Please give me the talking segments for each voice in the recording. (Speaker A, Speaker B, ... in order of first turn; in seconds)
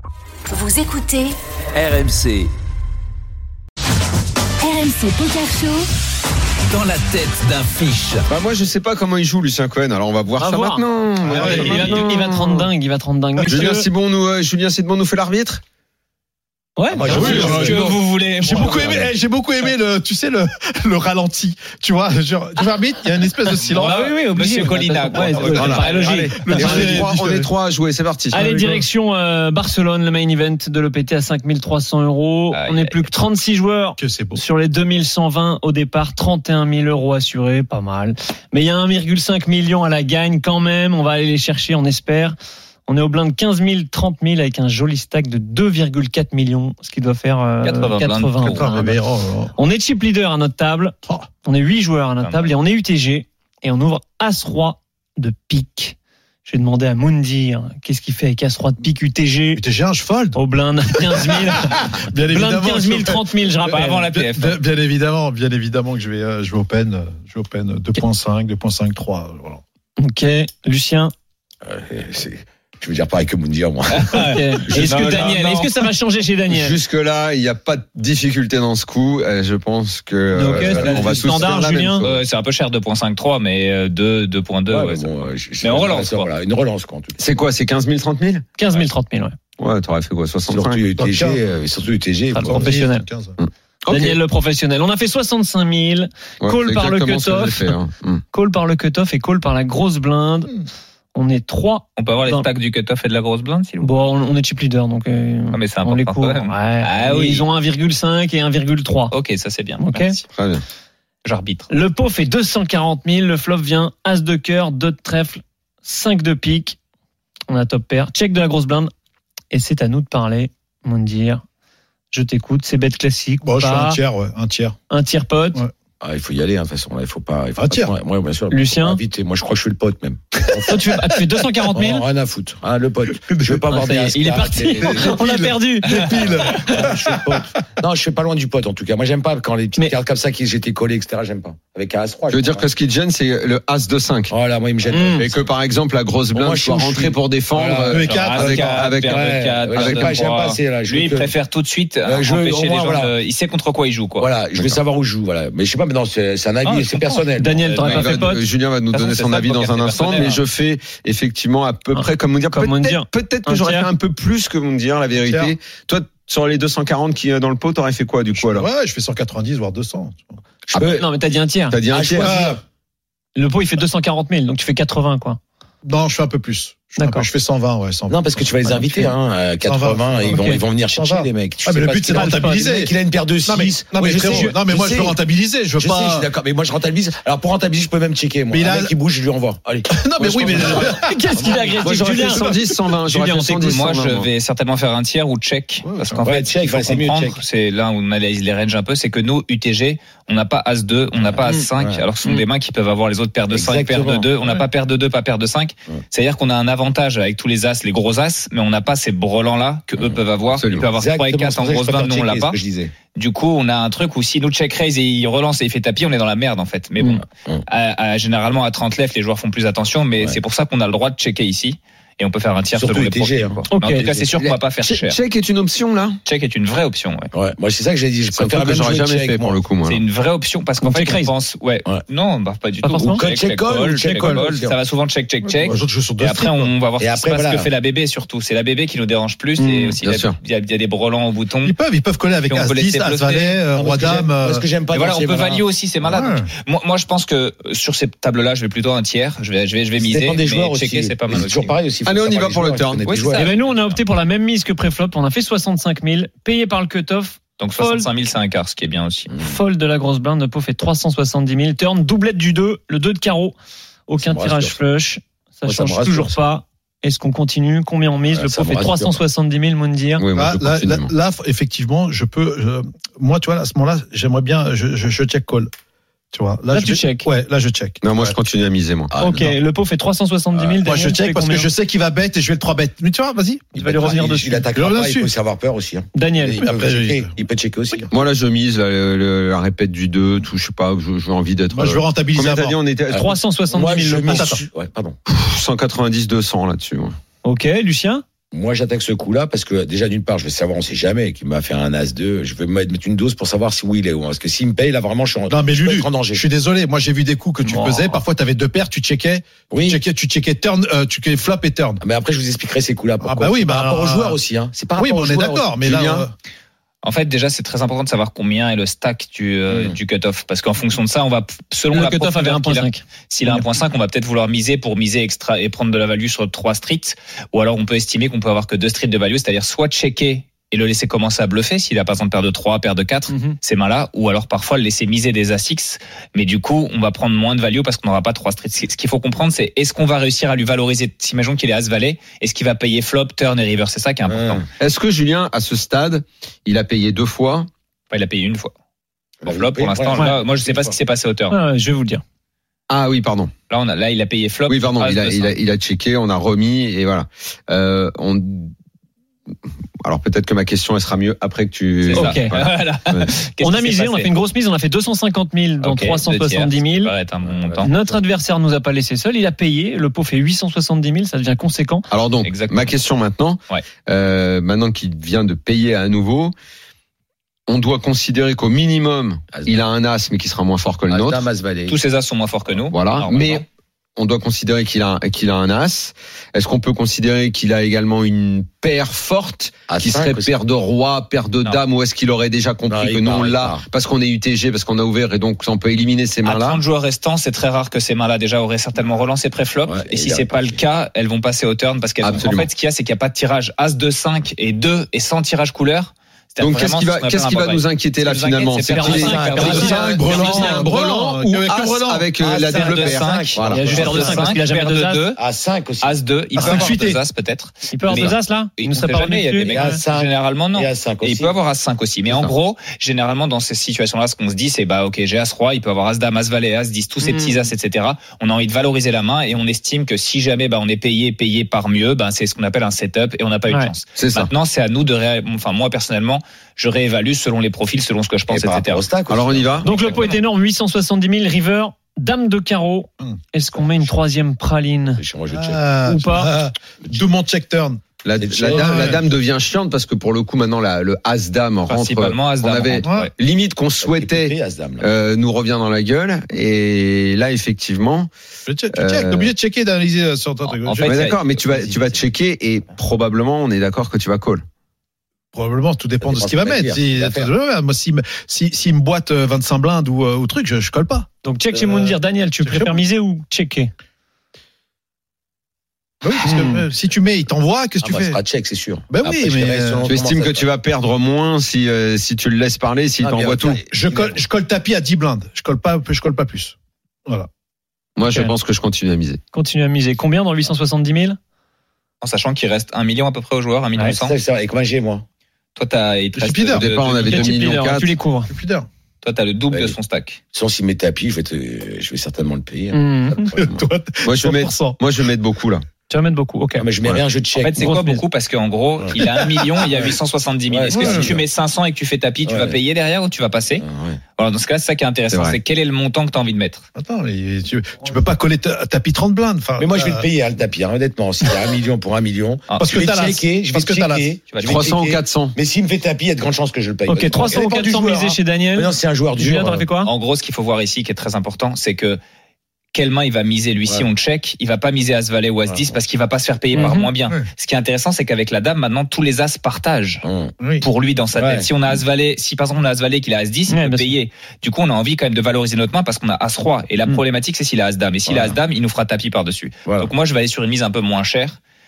Speaker A: 0.6-1.3, 4.6-5.8
Speaker B: 1.7-2.5, 6.7-8.2
Speaker C: 8.3-12.7, 13.5-15.6, 25.5-28.4, 74.8-75.3, 76.5-82.2, 87.2-88.4, 89.6-90.8, 93.4-94.2, 96.4-98.2, 110.3-110.6, 142.3-144.3, 144.9-150.2, 154.5-154.8, 157.8-168.7, 171.7-172.3, 190.2-190.9, 191.8-194.3, 210.5-210.9, 224.3-226.2, 228.3-230.0, 240.0-240.3, 252.0-253.0, 270.2-271.1, 278.0-279.1, 288.1-293.3, 295.3-297.1, 315.8-316.2, 344.8-347.7, 352.9-353.5, 354.7-358.7, 360.0-363.3, 372.1-376.5, 377.7-381.4, 382.9-396.8, 402.2-402.7, 406.6-413.9, 434.1-434.5, 439.3-439.9, 448.2-458.3, 458.9-459.5, 461.0-464.6, 480.1-483.8, 488.2-489.4, 496.7-498.1, 504.2-505.8, 515.3-515.6, 524.6-525.5
Speaker D: 10.4-13.9, 16.8-17.6, 23.8-27.1, 28.3-42.4, 42.9-49.0, 49.5-59.6, 60.3-64.1, 70.0-71.1, 74.1-76.8, 80.3-82.0, 88.6-89.4, 92.4-93.0, 93.9-97.8, 98.3-100.5, 101.1-102.5, 103.8-109.1, 109.8-110.2, 111.7-116.8, 117.5-118.9, 119.5-121.4, 122.1-124.0, 124.9-125.6, 128.5-129.0, 130.7-132.0, 133.7-136.7, 144.9-145.2, 157.4-158.4, 161.9-163.9, 170.8-171.8, 173.3-175.4, 177.0-177.3, 180.3-180.6, 182.1-182.7, 184.2-184.6, 190.9-193.8, 223.7-224.0, 230.8-231.3, 232.8-233.2, 239.6-240.0, 253.3-258.1, 259.4-263.6, 264.1-270.2, 276.7-277.3, 279.2-281.7, 283.8-284.6, 286.1-286.6, 293.1-294.6, 297.4-298.2, 307.6-308.1, 321.9-323.7, 333.3-333.6, 351.5-352.2, 362.1-362.5, 363.6-367.1, 367.8-372.1, 408.9-411.4, 413.7-415.2, 416.6-417.1, 417.9-420.0, 427.2-427.7, 439.8-445.2, 446.1-446.5, 471.4-473.9, 476.4-476.8, 488.3-488.5, 489.5-491.4, 497.2-498.5, 502.9-503.5, 506.1-506.9, 507.6-508.2, 527.0-530.1, 536.7-537.1, 543.7-544.1
Speaker E: 11.2-12.0, 17.0-17.8, 18.4-24.1, 26.4-27.5, 28.4-28.9, 34.0-34.4, 48.4-49.5, 59.5-60.4, 61.1-63.2, 64.1-69.6, 91.0-91.4, 92.4-93.3, 123.4-124.7, 127.6-127.9, 130.4-130.9, 133.1-133.7, 134.8-137.4, 147.9-148.8, 165.2-165.5, 168.3-170.3, 172.2-172.6, 175.8-186.3, 188.5-188.9, 189.9-191.1, 195.8-196.2, 234.0-234.5, 235.5-236.7, 241.6-244.7, 246.0-246.5, 270.3-275.7, 276.3-278.4, 280.8-285.3, 286.6-287.3, 291.7-292.7, 294.3-294.6, 305.5-312.0, 313.2-314.4, 314.9-316.3, 409.2-412.3, 416.6-417.2, 445.5-448.0, 448.7-449.2, 453.0-453.3, 458.7-461.2, 465.5-471.3, 471.9-473.0, 476.2-478.4, 479.1-480.1, 483.9-486.7, 496.3-496.9, 498.5-498.9, 503.5-505.0, 510.9-511.4, 517.0-520.2, 522.8-524.3, 540.6-540.9
Speaker F: 16.9-19.1, 71.6-75.2, 80.6-81.1, 84.7-87.2, 90.5-92.7, 126.0-130.8, 131.7-135.2, 136.2-142.7, 144.3-145.5, 146.3-151.3, 152.1-153.1, 154.2-157.6, 170.7-171.0, 171.9-172.6, 178.1-185.2, 185.8-189.9, 190.4-190.9, 196.2-197.4, 201.3-202.1, 203.5-204.3, 210.9-212.9, 222.7-224.3, 227.3-229.6, 233.0-234.8, 237.0-237.7, 243.7-245.7, 250.0-253.5, 264.2-264.8, 265.6-266.4, 268.3-269.2, 279.1-279.5, 283.8-288.1, 293.1-295.2, 298.5-306.4, 309.7-310.0, 312.0-315.8, 319.7-320.0, 344.2-344.6, 349.4-351.0, 367.4-368.2, 379.5-379.8, 381.1-382.0, 389.9-390.5, 392.9-393.8, 399.8-400.8, 409.6-410.8, 412.4-414.5, 415.4-416.2, 419.7-421.6, 438.5-440.3, 445.2-445.8, 448.4-449.3, 454.0-455.1, 461.4-462.2, 466.2-467.5, 478.0-480.7, 483.2-484.4, 494.1-495.2, 499.7-500.0, 500.5-503.9, 506.8-507.9, 509.8-510.2, 510.7-511.4, 512.4-512.8, 513.8-514.2, 519.8-529.9, 535.6-536.0, 540.2-540.5, 541.3-542.0, 548.2-548.6, 549.9-550.1
Speaker G: 17.1-19.0, 23.6-26.3, 32.5-33.0, 47.6-48.7, 52.2-52.5, 63.6-64.6, 73.9-75.8, 80.6-85.1, 85.6-86.3, 102.0-103.9, 105.5-107.4, 109.1-110.3, 111.2-111.7, 148.0-154.3, 156.7-158.2, 158.9-160.4, 193.5-212.6, 213.1-225.2, 226.2-227.3, 229.8-241.8, 242.5-243.6, 244.9-251.7, 253.0-254.0, 257.6-259.3, 317.0-344.6, 348.1-348.7, 349.4-351.6, 353.7-355.5, 362.0-364.3, 365.8-367.9, 372.4-372.9, 381.9-383.6, 396.4-410.9, 412.8-415.4, 416.0-439.0, 451.9-453.3, 460.6-461.5, 492.2-494.4, 495.8-497.8, 499.2-500.4, 507.6-513.8, 514.4-516.8, 522.7-523.0, 524.5-524.8, 527.3-527.6, 530.0-532.2, 532.9-540.2, 540.8-551.6